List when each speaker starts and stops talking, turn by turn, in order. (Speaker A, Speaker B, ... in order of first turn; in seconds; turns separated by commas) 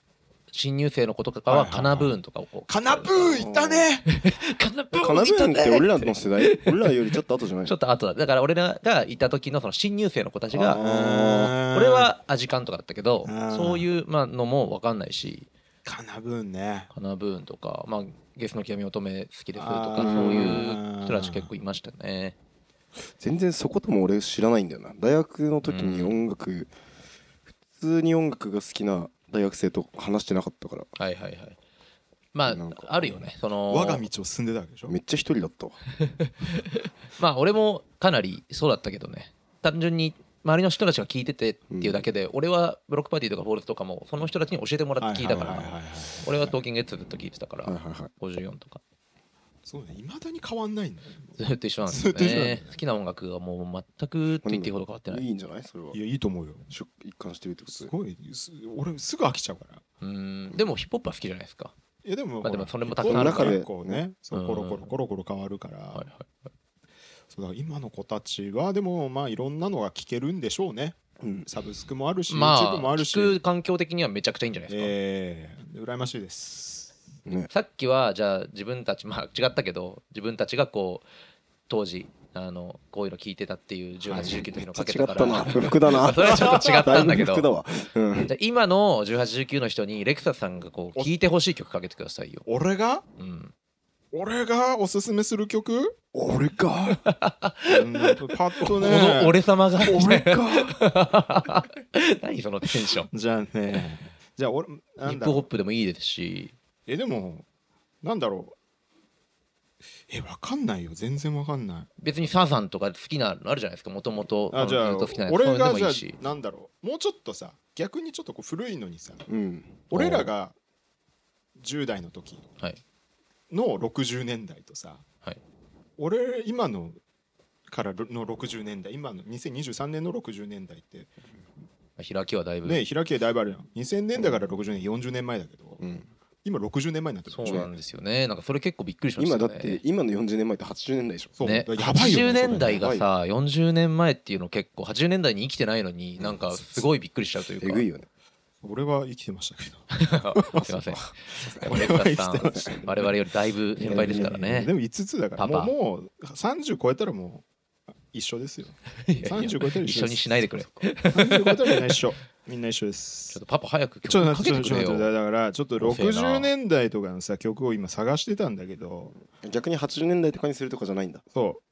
Speaker A: 0.5-3.3, Speaker B: 1.5-2.1, Speaker B: 2.7-4.1, Speaker C: 3.2-3.9, Speaker A: 4.1-6.9, Speaker C: 4.9-7.7, Speaker A: 7.6-15.5, Speaker C: 10.5-11.4, Speaker B: 10.7-12.1, Speaker B: 13.2-13.9, Speaker B: 15.8-16.9, Speaker A: 16.9-22.4, Speaker B: 19.5-21.5, Speaker C: 20.0-20.6, Speaker C: 23.2-26.7, Speaker A: 25.6-26.2, Speaker C: 27.7-30.9, Speaker A: 31.0-31.6, Speaker A: 32.3-34.1, Speaker C: 32.5-33.2, Speaker B: 33.7-34.9, Speaker C: 34.9-35.8, Speaker A: 36.0-48.8, Speaker C: 41.7-42.0, Speaker B: 45.0-46.5, Speaker C: 45.3-45.7, Speaker C: 47.6-48.1, Speaker B: 49.6-52.8, Speaker A: 51.4-55.3, Speaker C: 54.4-56.0, Speaker B: 55.9-56.6, Speaker C: 56.7-57.9, Speaker B: 57.7-59.8, Speaker A: 60.0-61.7, Speaker B: 62.0-66.1, Speaker A: 62.4-63.6, Speaker C: 63.0-64.0, Speaker A: 64.3-64.9, Speaker A: 65.9-66.3, Speaker B: 67.3-73.4, Speaker C: 71.2-71.5, Speaker A: 72.3-74.9, Speaker B: 74.7-77.0, Speaker C: 77.2-77.5, Speaker A: 77.5-81.0, Speaker A: 81.7-87.5, Speaker C: 84.1-88.3, Speaker B: 85.2-85.6, Speaker B: 86.3-86.6, Speaker A: 88.2-92.5, Speaker B: 92.5-93.0, Speaker A: 93.2-93.5, Speaker B: 94.1-96.0, Speaker C: 96.1-97.0, Speaker A: 97.0-103.1, Speaker B: 97.7-99.4, Speaker C: 99.8-100.8, Speaker B: 103.1-105.5, Speaker A: 105.0-106.5, Speaker B: 106.9-107.4, Speaker B: 108.0-108.5, Speaker B: 110.1-111.9, Speaker A: 112.0-116.2, Speaker B: 114.5-119.3, Speaker C: 119.3-119.9, Speaker B: 119.9-120.5, Speaker A: 119.9-120.3, Speaker B: 121.6-122.4, Speaker B: 123.5-125.0, Speaker B: 126.0-127.0, Speaker B: 127.7-131.1, Speaker A: 132.0-132.9, Speaker B: 132.6-135.8, Speaker C: 135.8-136.1, Speaker B: 136.4-137.7, Speaker A: 137.3-139.8, Speaker C: 137.4-137.7, Speaker C: 139.2-141.3, Speaker B: 141.4-142.8, Speaker A: 141.4-147.8, Speaker C: 142.3-143.1, Speaker C: 147.6-148.1, Speaker B: 148.6-150.7, Speaker A: 149.9-154.7, Speaker C: 150.9-151.9, Speaker B: 151.6-153.1, Speaker C: 152.5-152.8, Speaker B: 153.8-157.4, Speaker C: 153.8-154.3, Speaker A: 155.4-155.7, Speaker B: 158.1-160.2, Speaker A: 159.0-162.0, Speaker C: 160.5-160.9, Speaker B: 161.1-163.4, Speaker A: 163.3-165.1, Speaker B: 164.0-169.1, Speaker A: 165.8-166.5, Speaker C: 169.4-171.2, Speaker B: 171.3-171.6